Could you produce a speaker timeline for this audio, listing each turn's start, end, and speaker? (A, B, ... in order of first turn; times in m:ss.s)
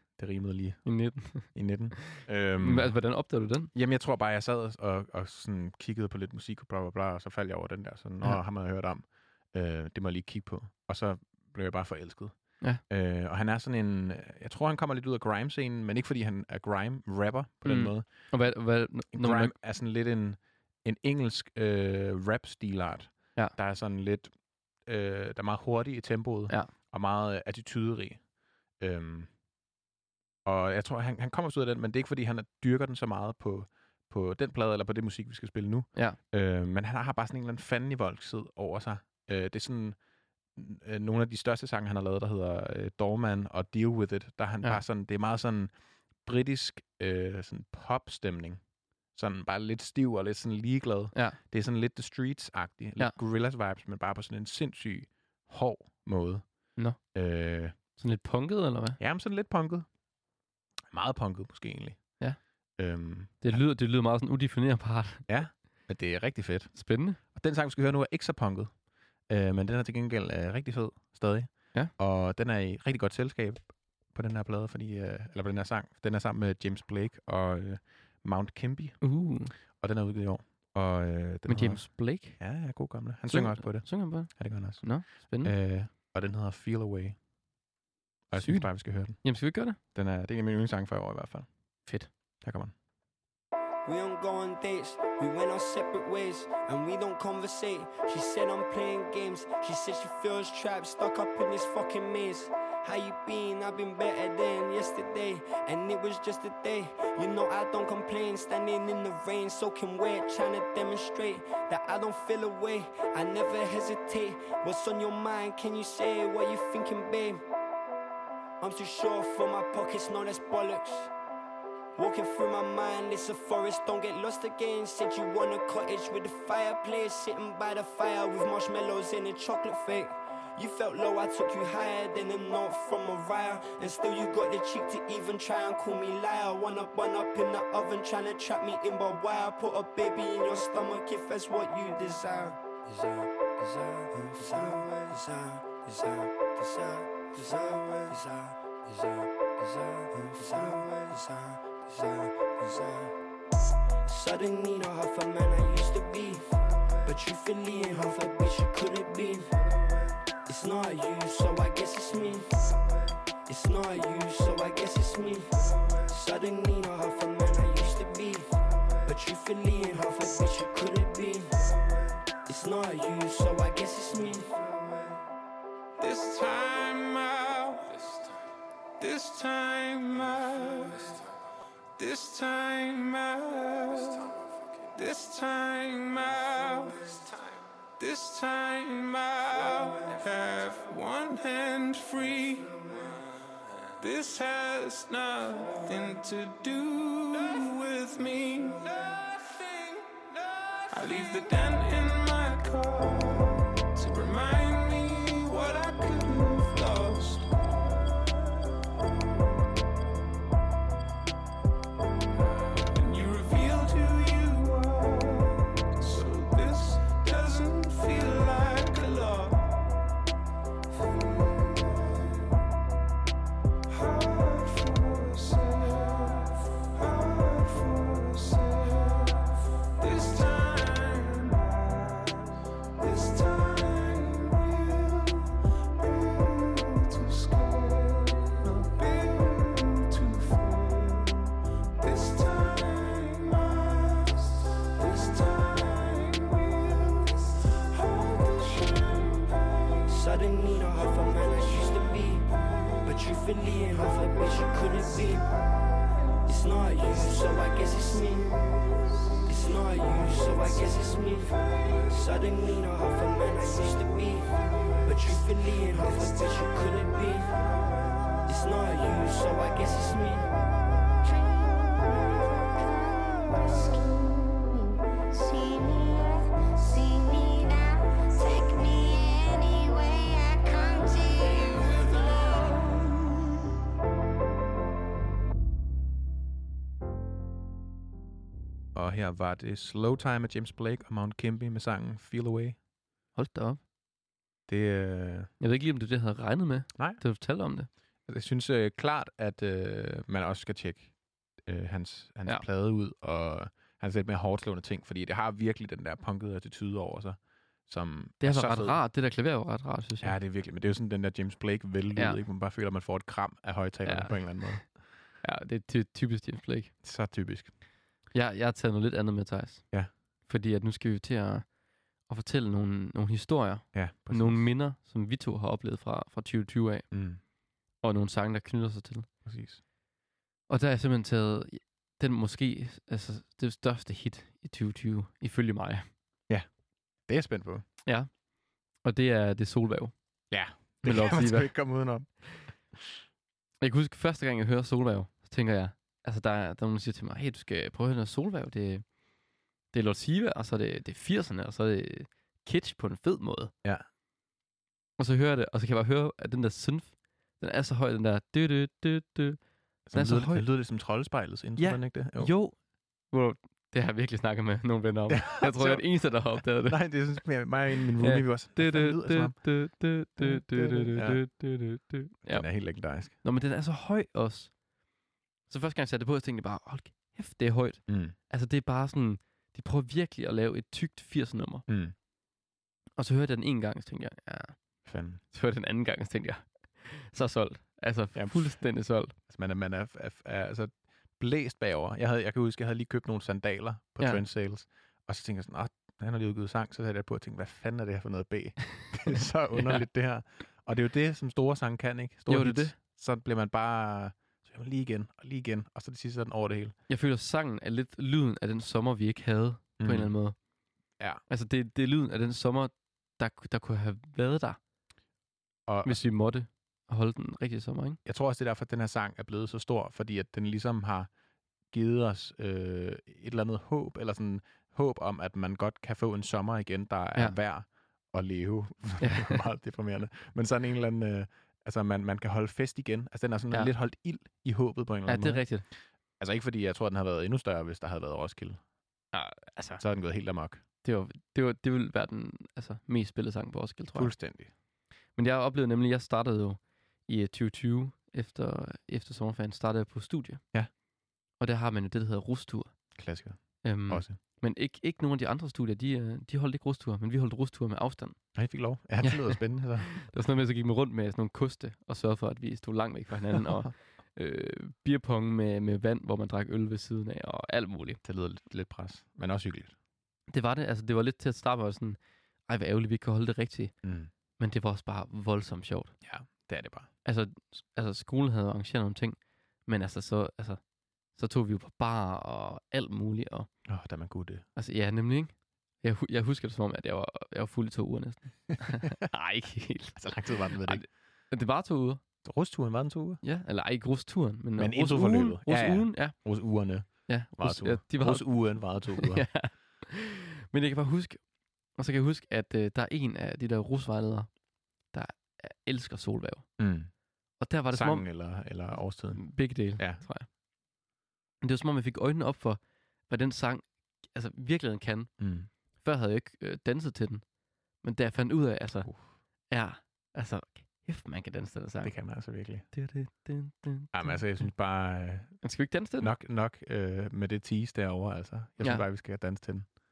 0:00.2-0:03.0 A
0:00.8-0:03.7 B
0:03.7-0:18.3 A
0:17.6-0:19.5 B
0:19.1-0:24.3 A
0:24.8-0:28.2 A
0:28.8-0:29.3 A
0:30.4-0:40.0 A
0:40.6-0:45.7 A
0:46.2-0:56.5 A
0:57.1-0:57.8 A
0:58.0-0:59.0 B
0:59.0-0:59.9 A
1:00.9-1:02.2 A
1:02.8-1:03.6 A
1:03.4-1:05.2 B
1:05.3-1:19.0 A
1:06.8-1:07.2 B
1:19.0-1:19.5 B
1:19.6-1:27.2 A
1:21.5-1:22.4 B
1:23.3-1:25.5 B
1:28.3-1:29.2 A
1:28.4-1:29.8 B
1:29.9-1:31.5 A
1:32.4-1:32.7 A
1:33.8-1:57.4 C
1:58.6-2:01.1 C
2:02.0-2:33.1 C
2:34.1-2:36.5 C
2:37.0-2:39.5 C
2:40.4-2:42.7 C
2:43.4-2:48.5 C
2:49.0-2:51.8 C
2:52.4-2:55.2 C
2:56.0-2:58.1 D
2:59.0-3:01.1 D
3:02.0-3:04.4 D
3:04.9-3:13.0 D
3:14.0-3:27.5 D
3:32.4-3:39.8 D
3:40.9-3:42.4 D
3:43.9-4:10.1 D
4:10.1-4:12.5 C
4:13.0-4:15.5 C
4:16.5-4:18.7 C
4:19.5-4:24.5 C
4:25.0-4:27.5 C
4:28.4-4:30.5 C
4:31.3-4:42.7 E
4:49.0-4:52.8 A
4:53.4-4:53.8 B
4:54.7-4:55.5 A
4:55.6-4:57.9 B
4:57.0-4:57.2 A
4:58.3-5:09.0 A
5:08.4-5:10.4 B
5:10.2-5:15.0 A
5:12.2-5:12.4 B
5:14.0-5:14.8 B
5:15.4-5:16.9 B
5:17.0-5:17.7 A
5:18.3-5:19.9 B
5:20.5-5:21.7 B
5:22.3-5:27.1 B
5:23.9-5:24.7 A
5:27.1-5:27.4 A
5:28.0-5:29.3 B
5:29.4-5:29.8 A
5:30.7-5:36.1 B
5:37.3-5:37.9 A
5:39.0-5:40.1 B
5:40.5-5:42.4 A
5:41.0-5:41.7 B
5:43.8-5:49.0 B
5:49.9-5:53.7 B
5:55.2-5:59.6 B
6:00.1-6:02.5 A
6:00.1-6:00.7 B
6:01.8-6:02.8 B
6:03.3-6:07.0 B
6:05.3-6:09.7 A
6:08.2-6:12.7 B
6:10.4-6:11.5 A
6:12.4-6:13.3 A
6:13.4-6:14.7 B
6:15.7-6:21.8 B
6:18.1-6:18.4 A
6:21.9-6:22.2 A
6:23.2-6:24.8 B
6:25.0-6:25.4 A
6:25.5-6:29.4 B
6:28.4-6:28.8 A
6:29.3-6:47.0 A
6:42.5-6:43.0 B
6:47.1-6:50.6 B
6:50.0-6:50.3 A
6:51.5-6:54.8 B
6:55.9-6:56.2 A
6:56.0-6:58.2 B
6:58.2-7:01.3 A
7:01.9-7:15.8 A
7:09.2-7:09.6 B
7:15.3-7:15.8 B
7:16.4-7:18.8 A
7:19.3-7:20.0 B
7:20.0-7:20.8 A
7:21.0-7:24.3 B
7:24.2-7:24.7 A
7:25.4-7:30.6 B
7:31.6-7:32.9 B
7:33.2-7:34.4 A
7:33.8-7:38.4 B
7:38.6-7:40.1 A
7:39.2-7:39.6 B
7:40.1-7:48.2 B
7:43.5-7:43.9 A
7:48.2-7:50.0 A
7:50.5-7:53.9 B
7:54.0-7:54.3 A
7:54.6-7:56.1 B
7:56.2-7:57.1 A
7:57.2-8:00.8 B
8:01.4-8:03.7 B
8:03.9-8:04.6 A
8:04.8-8:12.2 B
8:10.2-8:11.1 A
8:12.4-8:13.4 A
8:13.4-8:16.4 B
8:14.8-8:19.5 A
8:17.1-8:21.4 B
8:21.9-8:24.5 B
8:25.1-8:26.7 B
8:26.8-8:27.1 A
8:27.6-8:28.3 B
8:27.9-8:30.2 A
8:29.4-8:30.5 B
8:31.6-8:35.3 B
8:35.4-8:35.7 A
8:36.0-8:37.4 B
8:38.0-8:39.1 B
8:39.7-8:42.2 B
8:42.0-8:42.9 A
8:42.9-8:44.4 B
8:44.1-8:45.6 A
8:45.6-8:46.3 B
8:46.2-8:49.9 A